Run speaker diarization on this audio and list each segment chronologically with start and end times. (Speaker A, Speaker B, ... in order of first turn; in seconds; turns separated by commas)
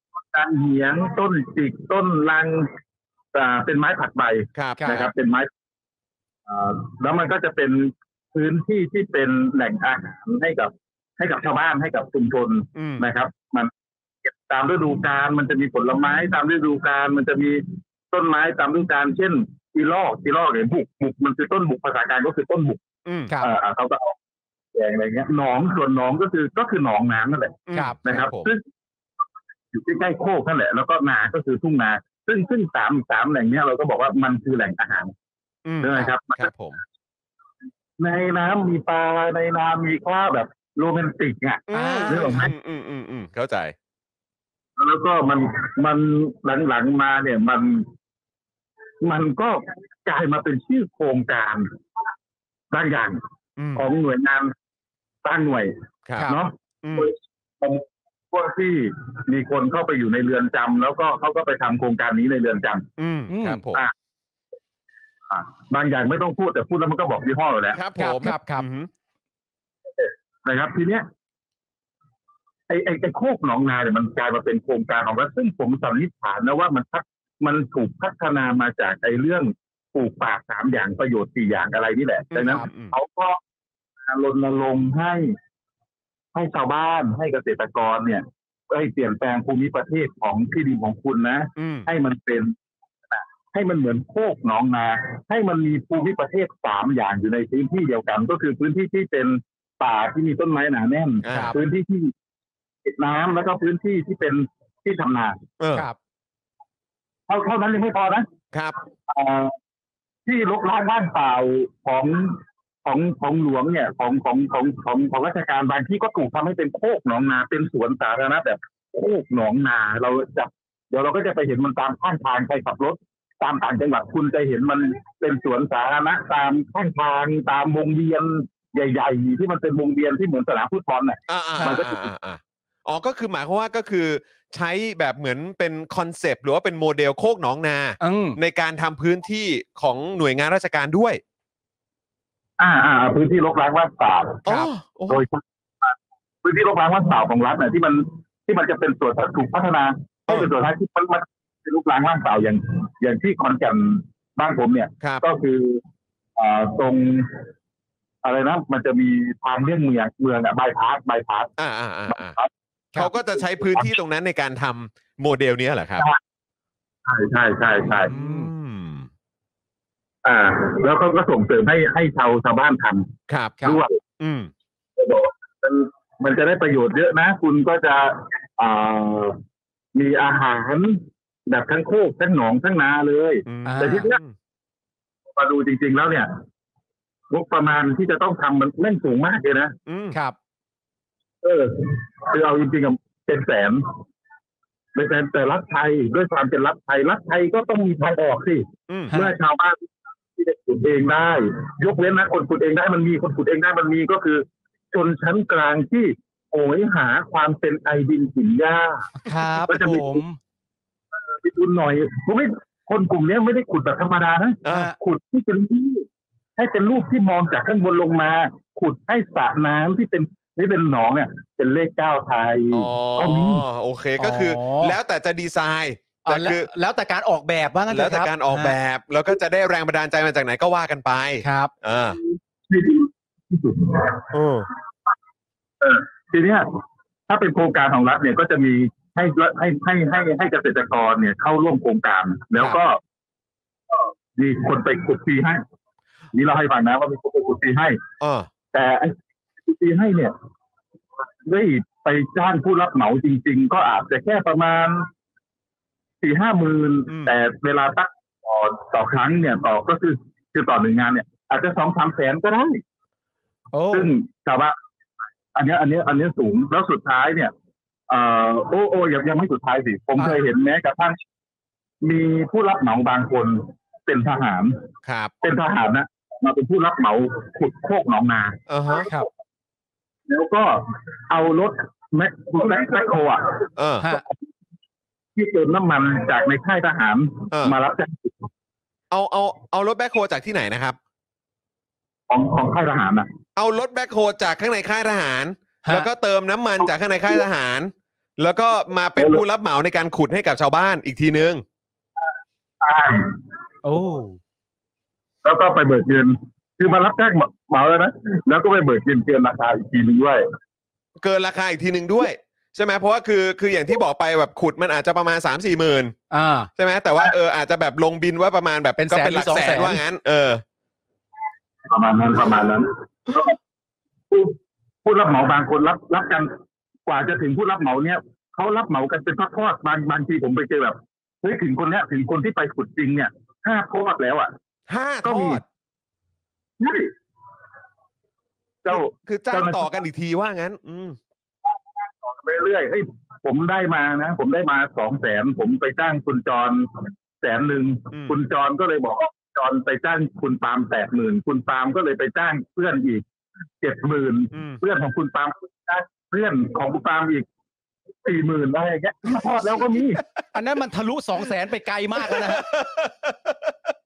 Speaker A: 0.3-2.7, Speaker A: 3.3-5.5, Speaker B: 4.5-5.0, Speaker C: 4.8-5.1, Speaker A: 6.5-13.7, Speaker B: 12.7-13.0, Speaker A: 14.4-22.8, Speaker B: 23.1-23.3, Speaker A: 23.4-24.1, Speaker A: 24.7-28.6, Speaker B: 27.7-28.5, Speaker A: 29.7-35.1, Speaker B: 35.6-36.8, Speaker A: 35.8-36.5, Speaker A: 38.0-42.5, Speaker B: 41.7-43.7, Speaker C: 41.7-42.5, Speaker A: 44.8-47.9, Speaker A: 49.0-51.7, Speaker A: 52.7-53.2, Speaker B: 53.6-53.8, Speaker A: 53.8-54.5, Speaker A: 55.2-55.7, Speaker B: 56.1-57.1, Speaker A: 56.2-62.9, Speaker B: 63.0-63.8, Speaker C: 63.3-63.6, Speaker A: 65.3-67.8, Speaker B: 67.7-68.9, Speaker C: 68.0-68.7, Speaker A: 70.0-71.1, Speaker A: 72.7-83.4, Speaker B: 82.3-82.9, Speaker C: 82.4-82.7, Speaker A: 84.1-85.3, Speaker A: 86.3-92.5, Speaker B: 91.6-91.9, Speaker A: 93.1-102.1, Speaker B: 101.2-101.5, Speaker C: 101.3-101.5, Speaker A: 102.8-105.4, Speaker B: 105.6-105.9, Speaker A: 107.3-108.3, Speaker B: 108.5-108.8, Speaker A: 109.1-109.5, Speaker A: 110.2-132.1, Speaker B: 131.3-141.2, Speaker C: 138.0-138.4, Speaker A: 142.6-144.4, Speaker B: 144.4-145.2, Speaker A: 145.1-155.8, Speaker A: 156.4-157.4, Speaker A: 158.2-161.5, Speaker B: 161.6-162.3, Speaker B: 162.9-166.0, Speaker A: 163.3-163.8, Speaker A: 167.1-168.1, Speaker B: 168.0-169.1, Speaker C: 168.1-168.5, Speaker A: 170.2-173.1, Speaker B: 173.3-173.6, Speaker A: 173.6-174.0, Speaker B: 174.2-174.5, Speaker A: 175.0-179.4, Speaker A: 179.9-184.2, Speaker B: 183.5-184.3, Speaker C: 183.6-184.1, Speaker A: 185.3-186.3, Speaker A: 187.3-189.7, Speaker B: 189.9-190.2, Speaker A: 191.4-193.9, Speaker A: 194.9-209.1, Speaker B: 198.9-199.1, Speaker C: 209.2-210.4, Speaker A: 209.6-210.2, Speaker A: 211.2-216.1, Speaker B: 214.6-214.9, Speaker C: 214.7-215.0, Speaker A: 216.6-223.6, Speaker B: 222.7-226.7, Speaker C: 224.2-224.9, Speaker C: 226.2-228.8, Speaker B: 227.9-232.2, Speaker C: 231.4-231.7, Speaker A: 232.7-234.3, Speaker B: 234.3-234.7, Speaker A: 235.8-236.7, Speaker A: 237.3-243.0, Speaker A: 243.9-245.6, Speaker A: 246.3-248.0, Speaker B: 248.2-248.5, Speaker A: 248.7-250.3, Speaker A: 251.4-255.1, Speaker A: 256.2-262.8, Speaker C: 263.7-264.1, Speaker A: 263.9-264.8, Speaker A: 265.5-267.5, Speaker A: 268.1-271.2, Speaker A: 272.0-274.8, Speaker B: 275.0-275.3, Speaker A: 275.4-279.1, Speaker B: 278.7-279.1, Speaker A: 280.3-283.6, Speaker B: 283.8-284.1, Speaker A: 285.4-288.5, Speaker B: 289.1-291.0, Speaker A: 292.3-293.3, Speaker B: 293.6-301.6, Speaker A: 302.8-303.3, Speaker C: 303.8-304.4, Speaker A: 305.4-310.4, Speaker B: 311.2-316.1, Speaker C: 316.3-316.7, Speaker B: 316.8-320.6, Speaker C: 318.9-320.0, Speaker A: 321.9-323.5, Speaker A: 324.3-326.5, Speaker A: 327.1-334.5, Speaker B: 334.9-335.6, Speaker A: 335.2-335.6, Speaker A: 336.8-337.1, Speaker A: 338.8-339.9, Speaker B: 338.9-341.2, Speaker A: 341.6-353.2, Speaker A: 353.8-357.4, Speaker B: 354.5-354.8, Speaker A: 358.2-360.2, Speaker B: 359.7-360.4, Speaker C: 360.5-362.7, Speaker B: 362.1-363.9